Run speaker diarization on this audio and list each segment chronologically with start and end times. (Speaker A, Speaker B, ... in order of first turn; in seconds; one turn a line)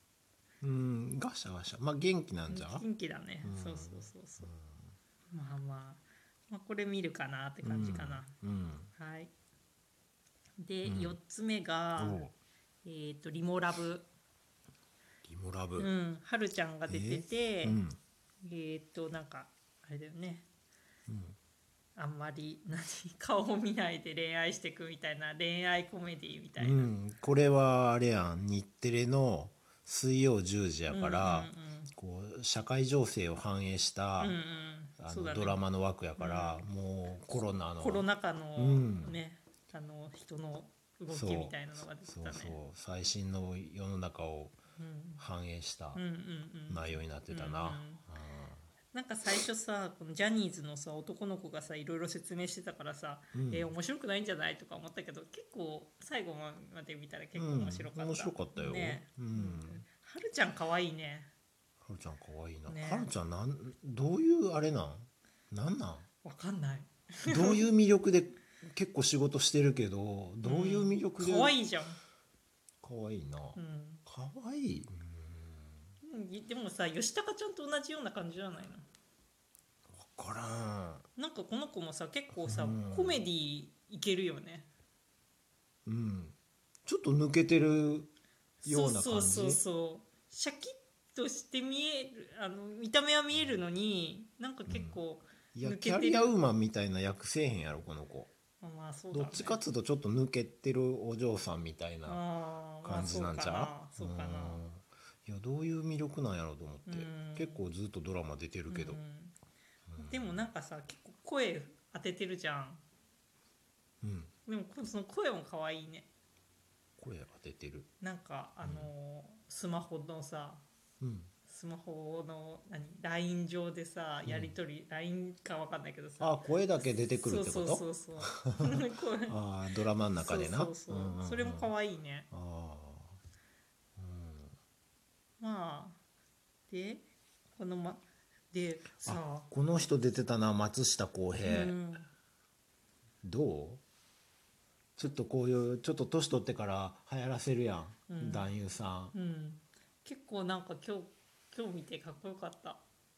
Speaker A: 0.6-2.9
Speaker B: 2.5-4.5
Speaker A: 3.4-4.8
Speaker B: 5.3-8.3
Speaker A: 7.6-8.9
Speaker B: 8.9-9.3
Speaker B: 10.6-12.2
Speaker A: 10.8-11.2
Speaker A: 12.0-12.3
Speaker B: 12.8-14.1
Speaker A: 15.2-15.9
Speaker B: 15.8-17.8
Speaker A: 16.9-18.0
Speaker B: 18.4-20.5
Speaker A: 21.1-21.4
Speaker B: 22.0-26.9
Speaker A: 26.6-34.4
Speaker B: 30.9-31.9
Speaker B: 34.2-35.6
Speaker A: 35.0-39.2
Speaker B: 36.2-36.7
Speaker B: 37.8-42.6
Speaker A: 41.1-44.6
Speaker B: 44.8-45.2
Speaker A: 45.2-46.0
Speaker B: 45.9-48.0
Speaker A: 46.7-48.6
Speaker B: 48.9-61.3
Speaker A: 53.3-53.7
Speaker A: 57.3-59.9
Speaker A: 61.8-66.1
Speaker B: 62.7-63.1
Speaker B: 66.2-67.7
Speaker A: 67.3-71.6
Speaker B: 70.4-72.0
Speaker A: 72.8-75.7
Speaker B: 73.5-74.0
Speaker B: 76.0-78.8
Speaker A: 79.9-81.0
Speaker B: 81.2-84.7
Speaker A: 82.3-83.2
Speaker A: 85.8-88.1
Speaker B: 88.6-96.3
Speaker A: 88.7-89.6
Speaker A: 94.7-95.0
Speaker A: 95.5-98.3
Speaker B: 98.6-99.6
Speaker A: 99.1-102.2
Speaker B: 102.0-104.6
Speaker A: 102.8-109.0
Speaker B: 106.9-107.6
Speaker B: 108.7-109.4
Speaker A: 109.9-110.5
Speaker B: 110.0-112.8
Speaker A: 114.0-114.3
Speaker B: 114.5-116.1
Speaker A: 117.0-117.9
Speaker B: 118.0-120.6
Speaker A: 118.6-118.9
Speaker A: 121.0-121.3
Speaker B: 121.4-126.4
Speaker A: 124.2-124.5
Speaker A: 126.2-131.7
Speaker B: 127.2-129.3
Speaker B: 130.2-132.3
Speaker A: 132.3-133.2
Speaker A: 134.0-134.5
Speaker B: 135.4-136.0
Speaker B: 136.7-139.5
Speaker A: 139.0-141.8
Speaker B: 141.4-142.1
Speaker A: 143.2-143.8
Speaker A: 145.0-149.1
Speaker B: 148.1-148.5
Speaker B: 149.1-152.8